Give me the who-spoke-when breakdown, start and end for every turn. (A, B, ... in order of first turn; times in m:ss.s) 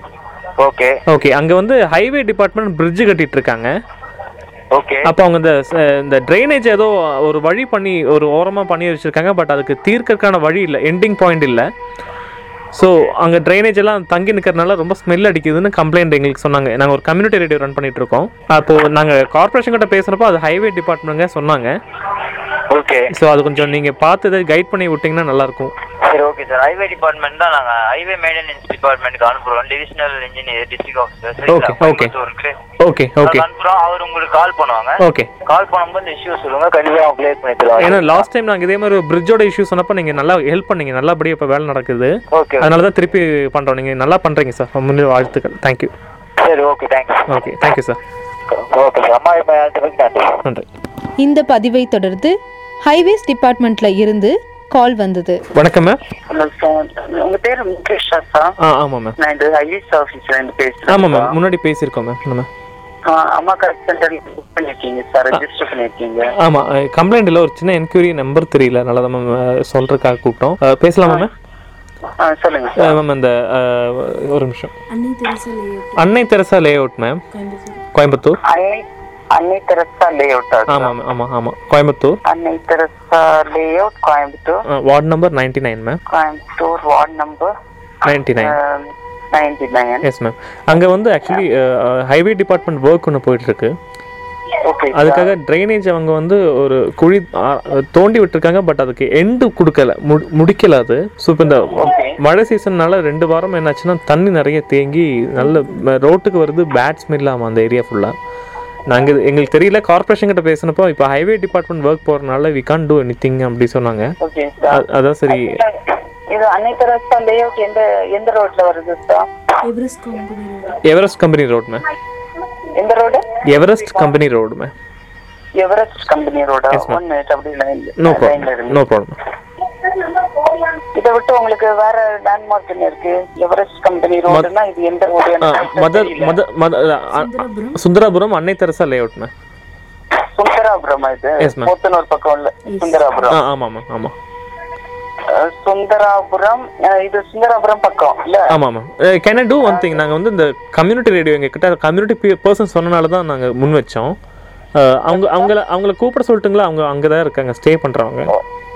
0:00.6-0:01.0 A
0:01.1-0:03.7 B
0:04.7-0:05.1 A
0:05.0-0:11.7 B
0:12.7-0:21.7 B
0:22.7-0:23.1 A
0:23.1-0:25.7 B
0:26.0-0:32.6 A
0:31.5-0:32.1 B
0:32.8-0:33.4 B
0:33.2-0:38.2 A
0:35.0-0:35.3 B
0:37.8-0:45.9 B
0:42.3-0:42.8 A
0:46.4-0:47.5 A
0:47.3-0:48.0 B
0:48.5-0:50.4 A
0:51.2-0:55.4 C
0:55.5-0:56.0 B
0:56.3-0:58.5 D
0:58.6-0:59.2 B
0:59.2-1:01.3 D
1:00.9-1:02.5 B
1:03.1-1:06.3 D
1:06.4-1:11.3 B
1:12.2-1:13.0 D
1:12.8-1:14.7 B
1:14.9-1:16.1 E
1:16.0-1:17.2 B
1:17.3-1:17.8 E
1:17.9-1:18.4 B
1:18.5-1:20.9 D
1:20.7-1:22.2 B
1:22.2-1:24.6 D
1:24.7-1:26.0 B
1:26.1-1:27.5 D
1:28.0-1:28.6 B
1:28.3-1:30.0 D
1:30.0-1:33.7 B
1:34.6-1:35.3 D
1:34.9-1:48.1 B
1:41.8-1:42.2 D
1:48.9-1:54.1 B
1:54.2-1:59.3 D
1:54.7-1:55.6 B
1:59.6-2:00.8 E
2:00.8-2:01.8 B
2:02.7-2:03.3 D
2:03.4-2:04.7 B
2:05.6-2:08.8 D
2:06.7-2:07.0 B
2:08.0-2:09.2 B
2:10.9-2:16.4 D
2:15.4-2:19.3 B
2:17.1-2:17.8 E
2:20.2-2:23.4 D
2:21.4-2:21.7 B
2:22.7-2:23.3 E
2:23.3-2:24.1 B
2:25.3-2:28.5 D
2:28.5-2:34.2 B
2:34.8-2:38.3 B
2:35.1-2:35.5 D